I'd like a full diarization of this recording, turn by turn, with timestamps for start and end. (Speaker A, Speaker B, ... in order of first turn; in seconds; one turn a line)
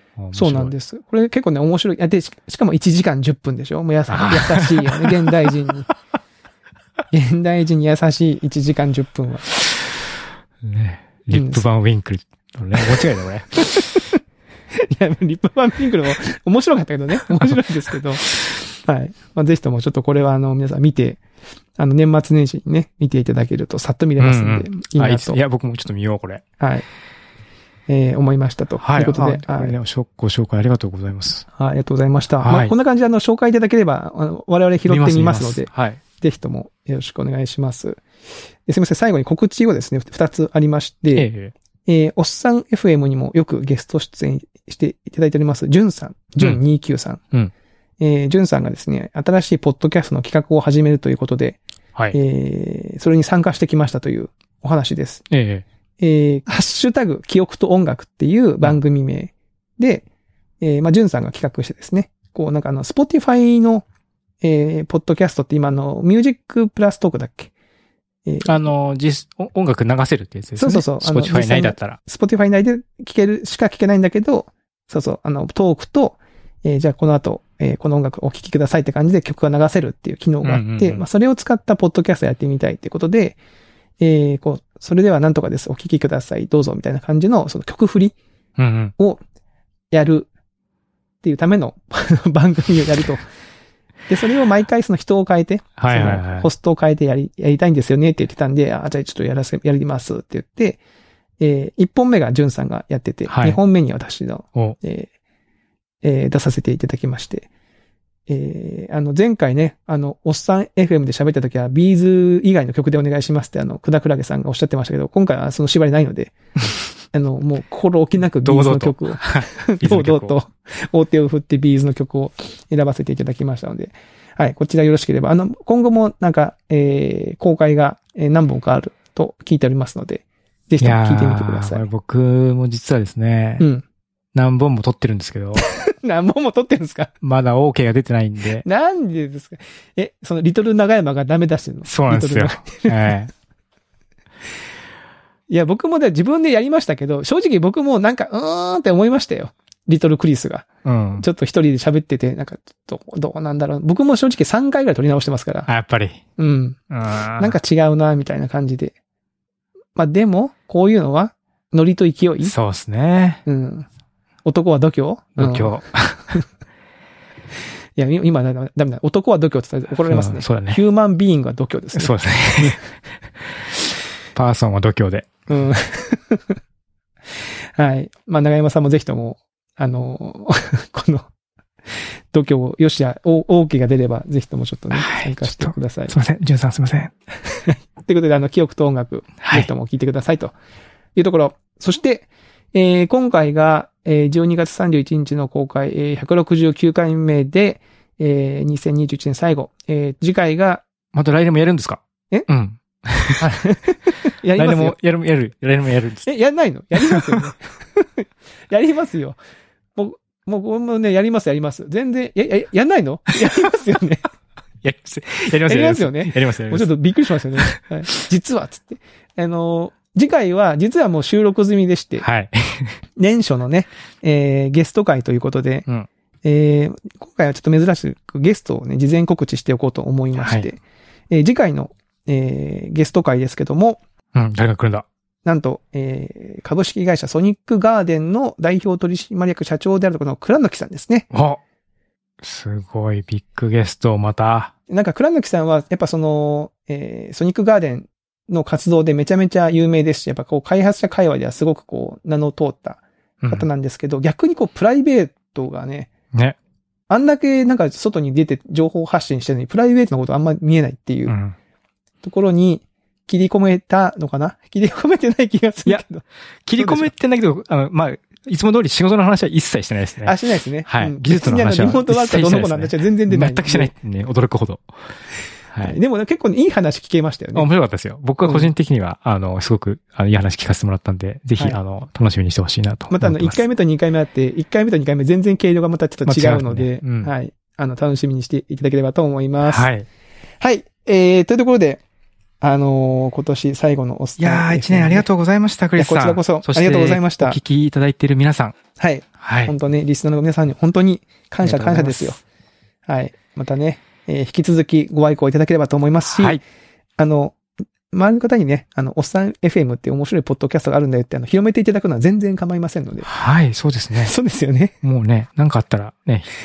Speaker A: 0.2-0.7
Speaker B: 0.3-5.9
Speaker A: 4.1-5.3
Speaker B: 7.1-9.5
Speaker A: 10.6-14.1
Speaker B: 11.3-11.7
Speaker B: 14.7-21.2
Speaker B: 21.8-25.4
Speaker A: 24.2-26.4
Speaker B: 26.6-26.9
Speaker B: 27.9-29.8
Speaker A: 28.8-31.4
Speaker B: 31.6-38.0
Speaker A: 32.4-32.7
Speaker A: 34.9-36.0
Speaker B: 38.7-41.3
Speaker A: 41.1-41.5
Speaker B: 41.9-47.2
Speaker B: 48.0-51.6
Speaker B: 52.1-55.3
Speaker A: 55.3-55.6
Speaker B: 56.0-60.0
Speaker B: 60.6-63.9
Speaker B: 64.4-67.5
Speaker B: 68.2-68.5
Speaker A: 68.4-72.0
Speaker B: 70.6-83.4
Speaker A: 80.4-81.0
Speaker B: 84.0-88.2
Speaker A: 88.6-88.9
Speaker B: 89.9-90.3
Speaker B: 91.2-93.2
Speaker B: 94.1-100.8
Speaker A: 95.8-96.5
Speaker B: 101.4-105.1
Speaker A: 103.3-103.6
Speaker B: 106.0-107.5
Speaker B: 108.3-116.3
Speaker B: 117.1-131.8
Speaker A: 118.5-120.4
Speaker A: 130.8-133.7
Speaker A: 134.3-135.7
Speaker B: 135.6-137.1
Speaker A: 137.2-138.7
Speaker B: 138.6-143.2
Speaker A: 141.8-143.3
Speaker B: 145.5-150.7
Speaker A: 150.8-151.3
Speaker B: 151.2-155.7
Speaker A: 155.7-156.2
Speaker B: 156.4-156.8
Speaker A: 156.9-157.6
Speaker B: 157.4-158.9
Speaker B: 159.9-162.5
Speaker A: 162.4-163.4
Speaker B: 163.5-163.9
Speaker B: 164.4-165.7
Speaker A: 165.4-166.4
Speaker B: 168.0-172.8
Speaker A: 170.0-170.8
Speaker A: 171.9-172.8
Speaker A: 174.3-175.3
Speaker B: 175.5-176.6
Speaker B: 177.8-181.3
Speaker B: 181.9-186.1
Speaker A: 184.9-187.1
Speaker B: 188.0-190.5
Speaker A: 189.4-189.7
Speaker B: 191.2-200.8
Speaker A: 201.1-203.5
Speaker B: 203.4-205.0
Speaker A: 204.6-206.3
Speaker B: 206.3-209.4
Speaker A: 207.0-207.4
Speaker B: 209.9-214.2
Speaker A: 214.8-216.9
Speaker B: 215.7-222.2
Speaker A: 222.2-223.0
Speaker B: 223.2-225.8
Speaker B: 226.4-234.0
Speaker A: 230.4-230.7
Speaker A: 234.3-235.1
Speaker B: 235.4-241.3
Speaker A: 241.3-241.6
Speaker A: 242.4-244.7
Speaker B: 244.9-256.1
Speaker A: 253.4-253.7
Speaker B: 257.1-261.4
Speaker A: 261.3-261.6
Speaker B: 262.2-266.2
Speaker A: 266.7-274.9
Speaker B: 266.8-267.1
Speaker B: 270.2-273.9
Speaker A: 275.7-276.0
Speaker B: 275.8-277.7
Speaker A: 277.6-283.6
Speaker B: 278.4-278.7
Speaker B: 283.1-289.9
Speaker A: 286.2-287.3
Speaker A: 289.6-290.1
Speaker B: 290.6-292.0
Speaker B: 292.6-295.3
Speaker A: 294.4-298.8
Speaker B: 296.0-297.6
Speaker B: 299.0-302.4
Speaker A: 299.4-299.7
Speaker A: 301.6-302.4
Speaker B: 303.1-306.6
Speaker A: 306.3-306.6
Speaker B: 307.2-307.6
Speaker B: 308.1-313.3
Speaker A: 313.2-314.4
Speaker B: 314.2-314.9
Speaker A: 315.0-316.5